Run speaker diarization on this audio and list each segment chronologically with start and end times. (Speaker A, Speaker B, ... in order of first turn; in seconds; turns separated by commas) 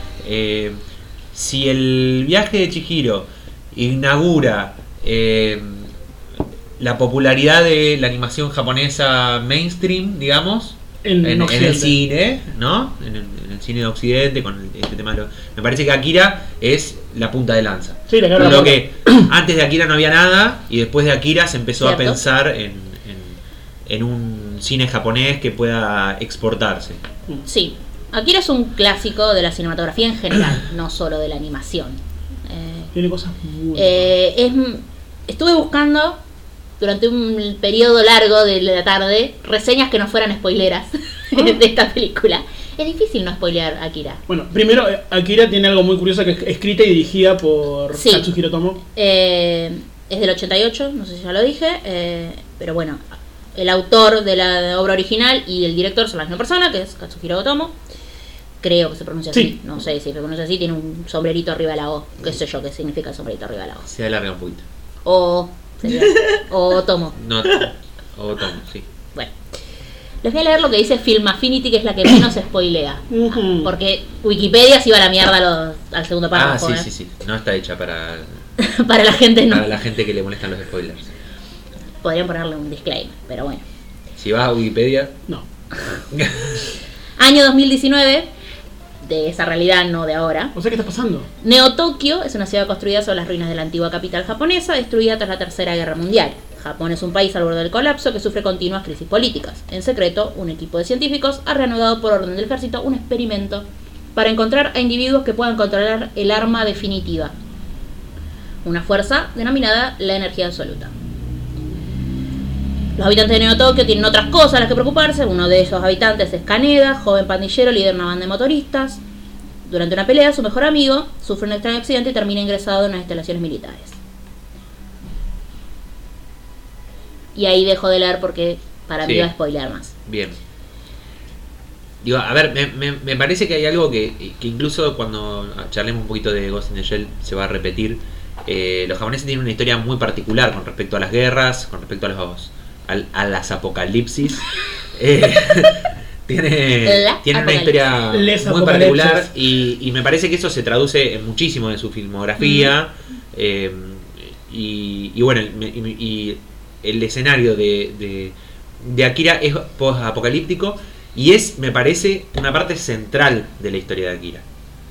Speaker A: 0.2-0.8, Speaker A: 1.3-5.9, Speaker A: 6.8-27.0, Speaker B: 11.0-11.9, Speaker B: 18.1-19.3, Speaker C: 21.8-22.2, Speaker C: 27.4-32.9, Speaker B: 32.9-34.1, Speaker C: 33.7-36.2, Speaker C: 36.8-44.2, Speaker B: 44.3-48.8, Speaker C: 47.9-48.3, Speaker C: 48.9-57.7, Speaker C: 58.6-63.9, Speaker A: 63.9-64.6, Speaker C: 65.0-67.2, Speaker A: 67.2-68.9, Speaker C: 70.2-76.9, Speaker B: 73.1-73.7, Speaker A: 76.3-78.4, Speaker C: 78.6-79.6, Speaker A: 79.5-81.1, Speaker C: 82.0-83.6, Speaker A: 84.2-85.2, Speaker A: 86.1-86.6, Speaker C: 87.2-88.3, Speaker C: 89.0-90.5, Speaker B: 90.5-91.3, Speaker C: 91.4-107.3, Speaker C: 108.6-110.9, Speaker C: 113.0-119.0, Speaker C: 119.6-124.0, Speaker C: 127.3-129.9, Speaker A: 129.0-129.3, Speaker A: 130.1-130.4, Speaker A: 132.0-164.4, Speaker C: 146.8-147.9, Speaker B: 148.1-149.3, Speaker C: 152.4-152.7